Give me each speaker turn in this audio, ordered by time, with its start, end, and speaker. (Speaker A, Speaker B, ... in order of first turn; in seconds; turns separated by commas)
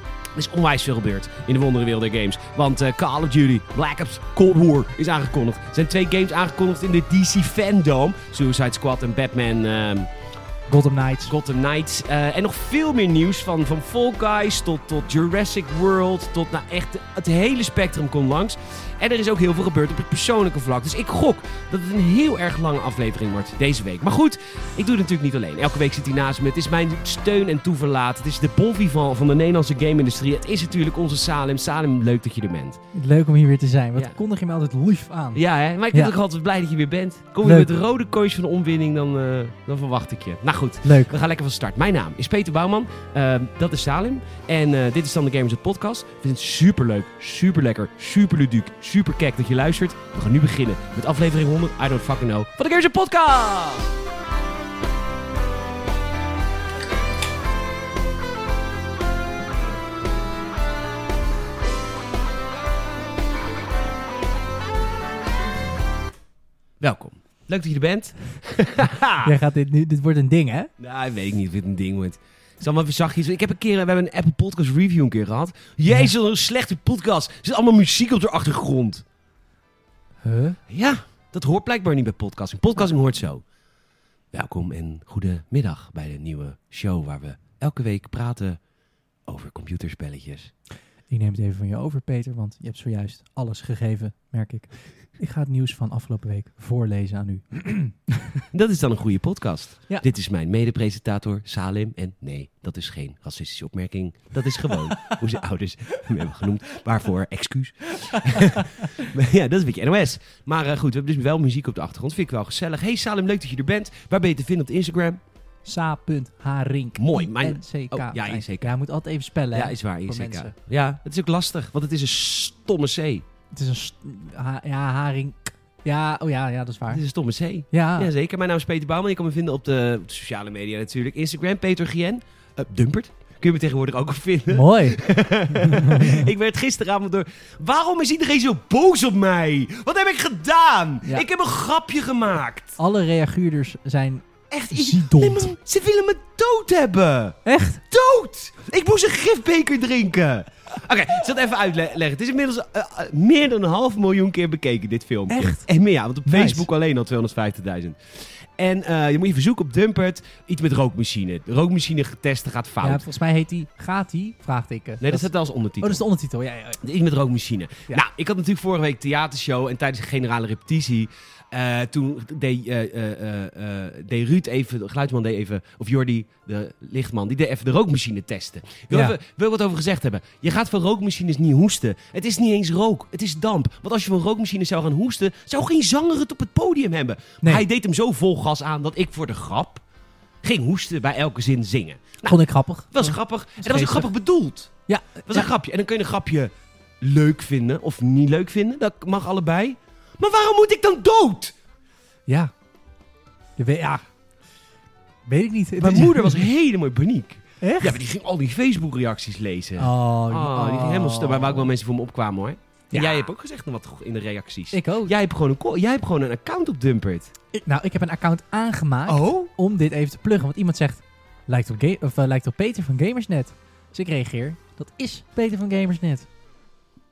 Speaker A: 0.3-10.1, Speaker B: 10.7-11.3, Speaker A: 11.3-32.8, Speaker B: 32.9-36.1, Speaker A: 35.3-53.9, Speaker B: 37.4-37.7, Speaker B: 40.8-41.1, Speaker A: 66.8-69.3, Speaker B: 69.2-70.7, Speaker A: 70.8-79.0, Speaker B: 80.2-80.6, Speaker A: 80.7-83.4, Speaker A: 84.3-88.6, Speaker A: 89.3-90.5, Speaker B: 91.1-98.4, Speaker A: 98.5-115.2, Speaker B: 106.0-106.2, Speaker B: 107.9-109.0, Speaker B: 115.6-120.5, Speaker A: 117.0-118.7, Speaker A: 119.5-123.2, Speaker B: 123.5-127.0, Speaker A: 126.9-142.8, Speaker B: 127.7-128.1, Speaker B: 134.5-136.2, Speaker B: 142.8-145.5, Speaker A: 144.5-147.4, Speaker B: 147.4-147.8, Speaker A: 147.9-163.0, Speaker B: 155.3-155.7, Speaker B: 156.2-156.7, Speaker B: 162.8-166.8, Speaker A: 165.0-166.0, Speaker A: 166.8-189.8, Speaker A: 190.4-192.4, Speaker B: 192.2-194.1, Speaker A: 192.9-194.7, Speaker B: 194.9-195.5, Speaker A: 195.3-201.6, Speaker B: 202.3-202.5, Speaker B: 203.6-204.0, Speaker B: 205.3-206.4, Speaker A: 205.8-217.3, Speaker B: 207.6-208.0, Speaker B: 209.8-211.7, Speaker B: 212.9-213.3, Speaker B: 214.7-215.1, Speaker B: 217.5-226.3, Speaker A: 219.1-219.5